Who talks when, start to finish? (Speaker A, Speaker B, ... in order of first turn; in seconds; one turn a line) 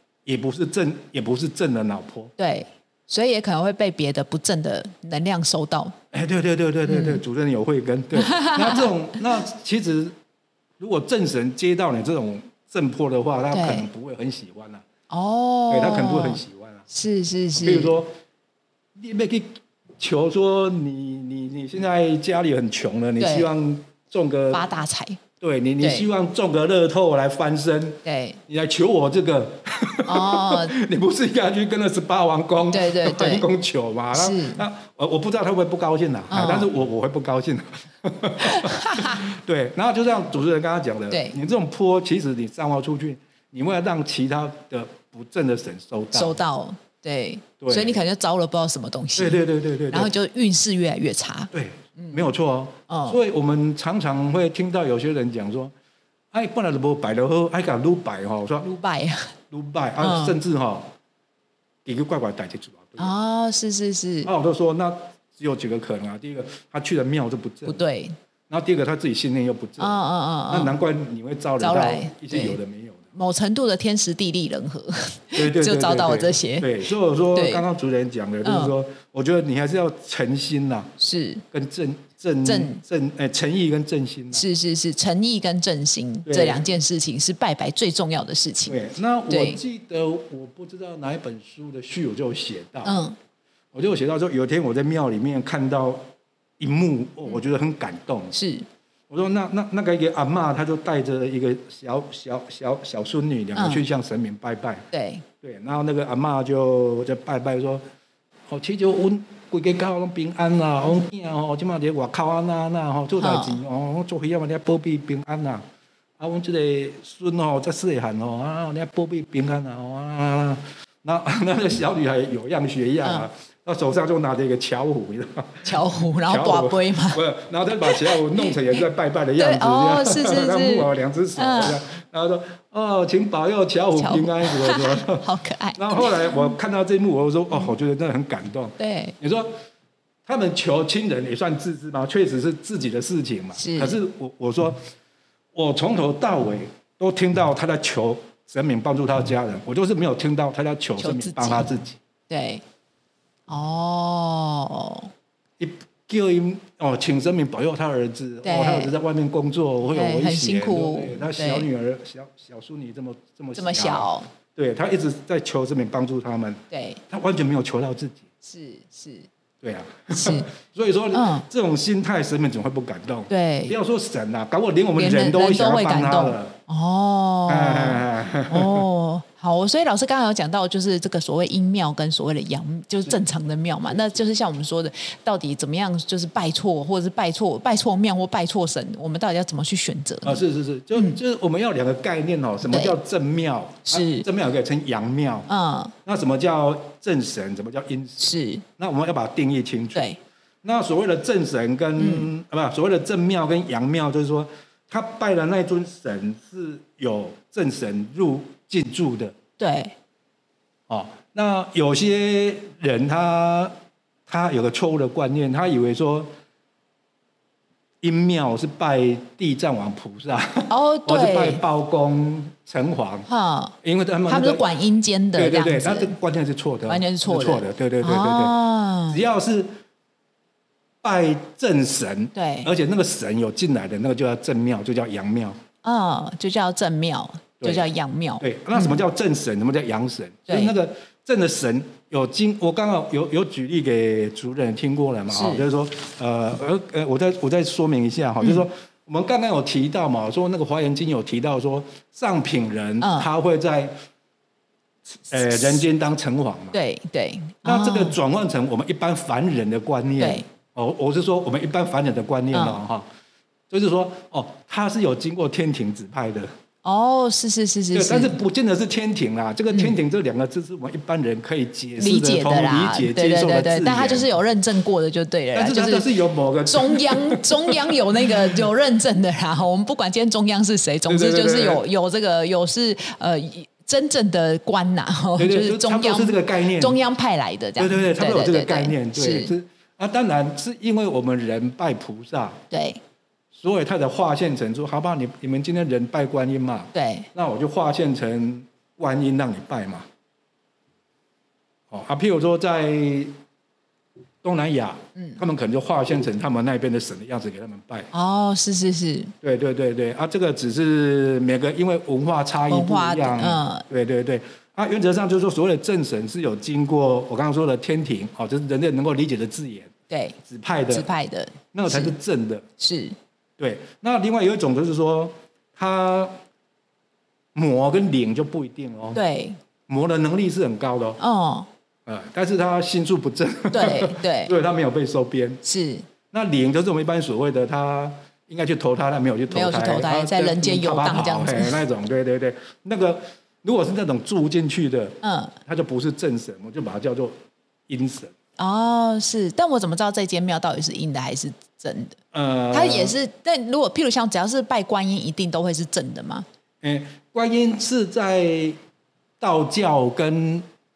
Speaker A: 0.2-2.3
Speaker B: 2.4-6.0
Speaker A: 6.1-10.1
Speaker B: 6.8-7.2
Speaker B: 8.1-8.9
Speaker A: 10.8-14.8
Speaker B: 13.5-13.9
Speaker B: 15.1-17.9
Speaker A: 15.7-16.8
Speaker A: 17.5-18.1
Speaker A: 18.9-24.6
Speaker B: 23.2-23.5
Speaker B: 24.5-25.2
Speaker A: 25.4-46.4
Speaker B: 25.8-26.1
Speaker B: 28.0-28.4
Speaker B: 30.1-30.7
Speaker B: 32.7-33.5
Speaker B: 34.1-34.6
Speaker B: 36.3-36.7
Speaker B: 38.4-39.2
Speaker B: 41.1-41.3
Speaker B: 46.1-52.2
Speaker A: 47.6-48.0
Speaker A: 49.1-50.1
Speaker A: 51.5-55.7
Speaker B: 52.9-53.2
Speaker A: 56.3-58.7
Speaker B: 58.6-59.3
Speaker A: 59.5-60.9
Speaker B: 60.0-60.4
Speaker A: 61.8-63.1
Speaker B: 63.0-64.3
Speaker A: 64.2-67.8
Speaker B: 67.7-68.2
Speaker A: 68.5-70.0
Speaker B: 69.8-70.7
Speaker A: 70.5-73.1
Speaker B: 71.6-72.6
Speaker B: 73.1-76.8
Speaker A: 75.3-80.9
Speaker B: 77.3-77.6
Speaker B: 78.4-78.7
Speaker B: 81.0-81.4
Speaker A: 81.5-84.4
Speaker B: 82.4-82.8
Speaker B: 84.3-89.6
Speaker A: 86.2-86.6
Speaker A: 88.7-93.0
Speaker B: 92.8-93.2
Speaker A: 93.7-96.0
Speaker A: 96.6-98.3
Speaker B: 98.3-98.7
Speaker A: 99.1-104.8
Speaker B: 103.5-103.8
Speaker B: 104.9-105.2
Speaker A: 105.4-107.8
Speaker A: 108.5-115.6
Speaker B: 113.2-113.6
Speaker A: 116.2-139.5
Speaker B: 125.6-127.2
Speaker B: 127.8-128.5
Speaker B: 129.4-131.8
Speaker B: 133.9-136.5
Speaker B: 138.8-139.1
Speaker A: 140.2-144.8
Speaker B: 143.6-144.0
Speaker A: 145.5-152.0
Speaker B: 151.0-151.7
Speaker B: 152.3-152.6
Speaker B: 153.5-155.1
Speaker A: 155.6-168.2
Speaker B: 158.4-158.9
Speaker B: 159.9-161.7
Speaker B: 163.6-164.3
Speaker B: 166.7-167.0
Speaker B: 168.4-169.3
Speaker A: 169.6-176.6
Speaker B: 170.1-170.5
Speaker B: 171.1-171.4
Speaker B: 173.3-173.8
Speaker B: 175.0-190.4
Speaker A: 177.5-178.8
Speaker A: 183.9-184.2
Speaker A: 190.2-195.5
Speaker B: 192.7-192.9
Speaker B: 193.9-194.2
Speaker B: 195.5-195.9
Speaker A: 196.0-200.1
Speaker B: 198.2-198.6
Speaker A: 200.6-209.3
Speaker B: 202.0-202.3
Speaker B: 209.6-209.9
Speaker A: 210.9-213.7
Speaker A: 214.3-216.3
Speaker A: 218.0-223.3
Speaker B: 220.7-221.6
Speaker B: 223.3-223.7
Speaker A: 223.8-224.6
Speaker B: 224.3-226.1
Speaker A: 225.3-228.6
Speaker B: 226.9-229.2
Speaker A: 229.1-229.7
Speaker A: 231.0-235.6
Speaker B: 232.3-232.7
Speaker B: 235.8-239.0
Speaker A: 237.6-237.9
Speaker A: 238.4-253.9
Speaker B: 240.5-240.7
Speaker B: 245.3-245.7
Speaker B: 253.0-253.3
Speaker A: 255.1-256.8
Speaker B: 256.7-258.2
Speaker A: 257.6-263.1
Speaker B: 260.2-260.4
Speaker B: 262.5-262.8
Speaker A: 263.7-266.5
Speaker B: 266.8-268.3
Speaker A: 267.9-274.3
Speaker B: 272.0-276.1
Speaker A: 275.5-277.9
Speaker B: 276.7-289.5
Speaker A: 281.1-281.8
Speaker A: 285.4-287.0
Speaker A: 287.8-292.6
Speaker B: 292.7-293.0
Speaker A: 293.5-300.1
Speaker B: 296.9-297.3
Speaker A: 301.9-303.3
Speaker A: 304.4-308.1
Speaker B: 308.1-309.3
Speaker A: 309.4-319.9
Speaker B: 312.7-313.8
Speaker B: 320.1-320.4
Speaker A: 320.4-321.1
Speaker B: 320.9-322.1
Speaker A: 321.7-322.6
Speaker B: 322.8-323.1
Speaker A: 323.6-326.3
Speaker A: 327.5-329.2
Speaker B: 329.1-329.6
Speaker A: 329.9-331.2
Speaker B: 331.2-331.7
Speaker A: 332.1-335.6
Speaker B: 333.7-334.5
Speaker B: 335.6-336.0
Speaker A: 336.3-347.4
Speaker B: 339.5-341.8
Speaker B: 345.2-345.5
Speaker A: 347.9-348.3
Speaker B: 348.6-352.2
Speaker A: 352.3-353.2
Speaker B: 352.7-356.4
Speaker A: 356.8-358.8
Speaker A: 359.4-360.6